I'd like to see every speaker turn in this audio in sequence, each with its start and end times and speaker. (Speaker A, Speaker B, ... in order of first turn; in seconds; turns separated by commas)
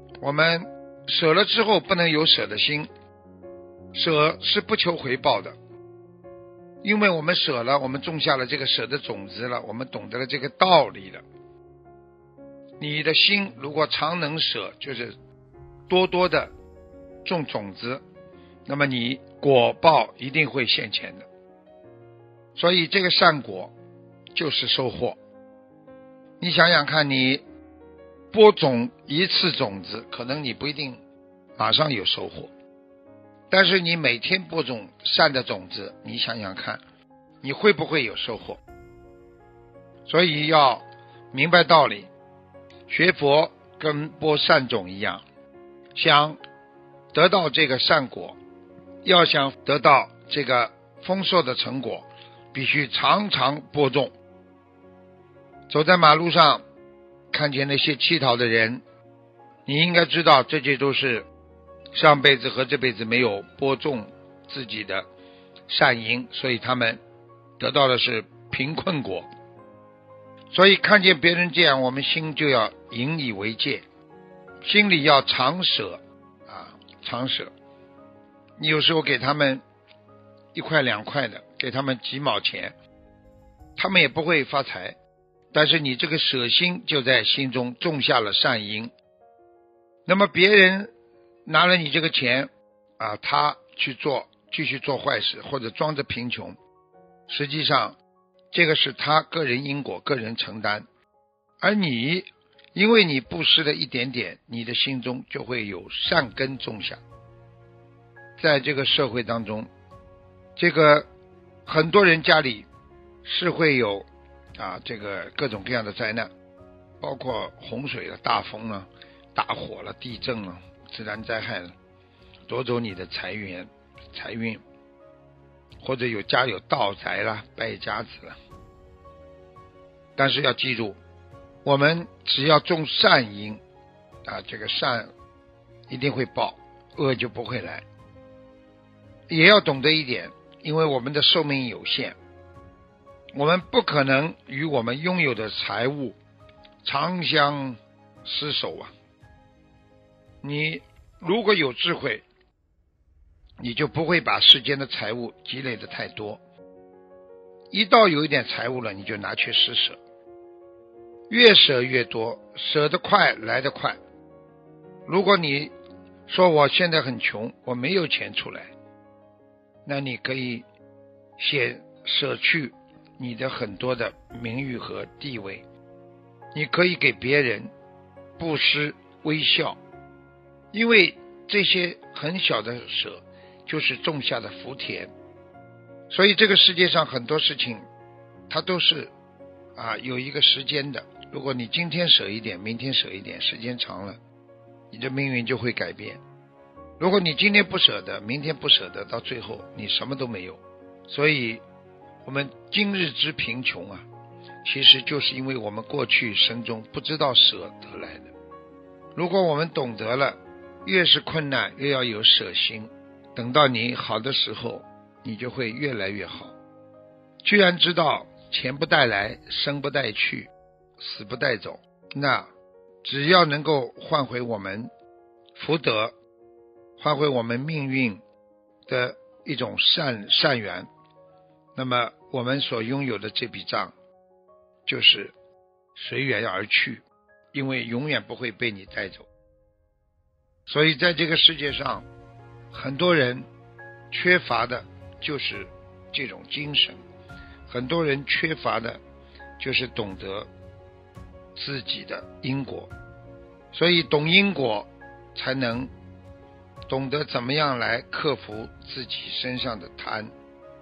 Speaker A: 0.2-2.9, Speaker A: 3.9-5.6, Speaker A: 6.8-11.2, Speaker A: 12.8-15.1, Speaker A: 15.9-16.5, Speaker A: 17.2-18.0, Speaker A: 18.7-21.3, Speaker A: 22.6-23.7, Speaker A: 24.3-25.2, Speaker A: 26.4-27.4, Speaker A: 28.3-31.0, Speaker A: 31.6-32.5, Speaker A: 33.5-36.8, Speaker A: 37.4-38.6, Speaker A: 40.1-42.1, Speaker A: 42.9-45.2, Speaker A: 46.0-46.4, Speaker A: 47.1-48.4, Speaker A: 49.0-54.1, Speaker A: 55.7-56.6, Speaker A: 57.3-58.8, Speaker A: 59.7-61.3, Speaker A: 62.0-65.1, Speaker A: 65.7-67.0, Speaker A: 67.6-69.3, Speaker A: 70.5-73.8, Speaker A: 74.6-77.5, Speaker A: 78.6-79.6, Speaker A: 80.5-82.8, Speaker A: 83.8-85.0, Speaker A: 85.5-88.9, Speaker A: 90.0-90.9, Speaker A: 91.5-96.6, Speaker A: 97.3-98.0, Speaker A: 98.5-100.9, Speaker A: 101.6-107.0, Speaker A: 108.4-109.7, Speaker A: 110.6-111.1, Speaker A: 111.7-112.7, Speaker A: 113.2-116.3, Speaker A: 117.0-121.8, Speaker A: 122.5-124.6, Speaker A: 125.8-128.4, Speaker A: 130.2-131.0, Speaker A: 131.6-133.6, Speaker A: 134.2-135.1, Speaker A: 135.9-137.8, Speaker A: 139.3-142.2, Speaker A: 143.3-146.2, Speaker A: 146.8-148.9, Speaker A: 150.4-152.2, Speaker A: 153.6-156.4, Speaker A: 157.7-160.0, Speaker A: 161.3-164.0, Speaker A: 165.1-165.7, Speaker A: 166.3-168.7, Speaker A: 169.8-170.7, Speaker A: 171.4-175.6, Speaker A: 176.5-177.7, Speaker A: 178.4-179.8, Speaker A: 180.7-185.1, Speaker A: 186.1-187.8, Speaker A: 188.5-189.1, Speaker A: 189.8-194.2, Speaker A: 194.9-196.2, Speaker A: 197.0-201.6, Speaker A: 202.2-204.1, Speaker A: 204.7-208.3, Speaker A: 209.2-216.5, Speaker A: 217.4-222.5, Speaker A: 223.0-224.9, Speaker A: 225.6-226.2, Speaker A: 227.0-228.2, Speaker A: 228.9-230.9, Speaker A: 231.8-233.9, Speaker A: 234.9-235.3, Speaker A: 236.0-239.3, Speaker A: 240.7-242.1, Speaker A: 242.7-243.5, Speaker A: 244.1-247.0, Speaker A: 247.7-249.0, Speaker A: 249.6-250.5, Speaker A: 251.6-252.9, Speaker A: 253.7-255.9, Speaker A: 256.9-260.3